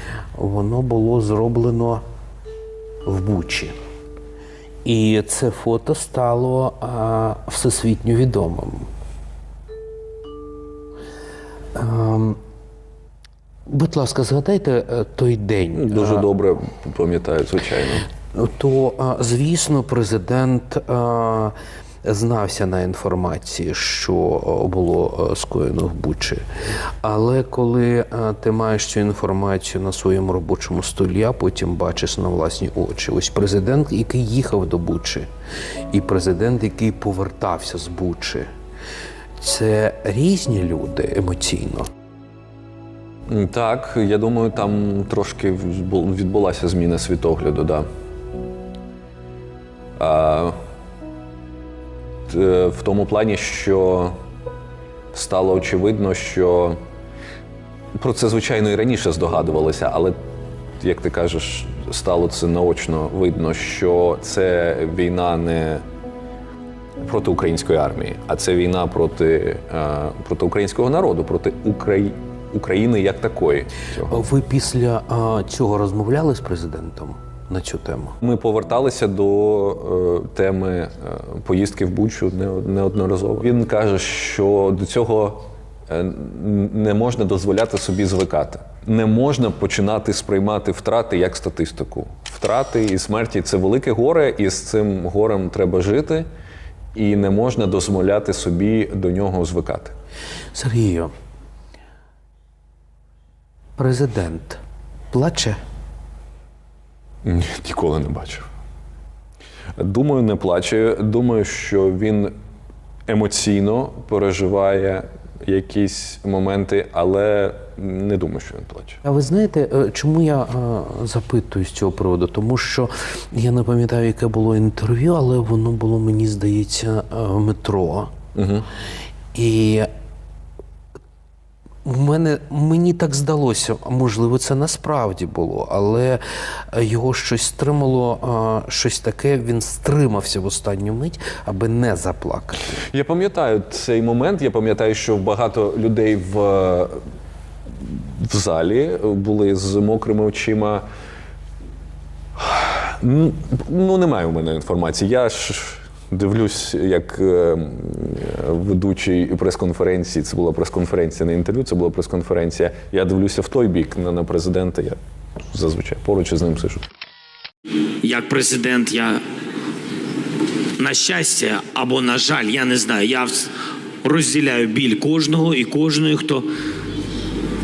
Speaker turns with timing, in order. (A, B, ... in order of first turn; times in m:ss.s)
0:00.4-0:02.0 A
0:03.0-0:03.7 A
0:04.8-0:08.9 A
0:11.8-0:12.4 A
0:13.7-0:16.3 A
0:15.7-0:18.0 B
0:18.3-0:26.4 A
0:27.0-0:35.3 A
0:35.9-0:38.5 A
0:39.4-0:41.9 A
0:43.3-0:47.8 B
0:50.0-0:50.6 B
0:52.3-0:54.2 B
0:55.1-0:56.8 B
0:58.0-1:00.2 B
1:00.8-1:05.8 B
1:07.0-1:14.2 B
1:14.1-1:18.2 A
1:18.2-1:36.3 B
1:37.0-1:39.9 B
1:40.5-1:41.1 A
1:43.8-1:44.6 A
1:45.1-1:45.6 A
1:47.2-1:48.5 B
1:49.8-1:52.3 B
1:53.1-1:59.0 B
1:59.0-2:08.1 A
2:08.3-2:08.7 B
2:09.3-2:09.9 A
2:11.8-2:22.8 A
2:22.9-2:27.0 B
2:27.8-2:30.8 B
2:32.4-2:45.0 B
2:45.5-2:46.8 B
2:48.0-2:49.2 C
2:50.8-2:56.5 C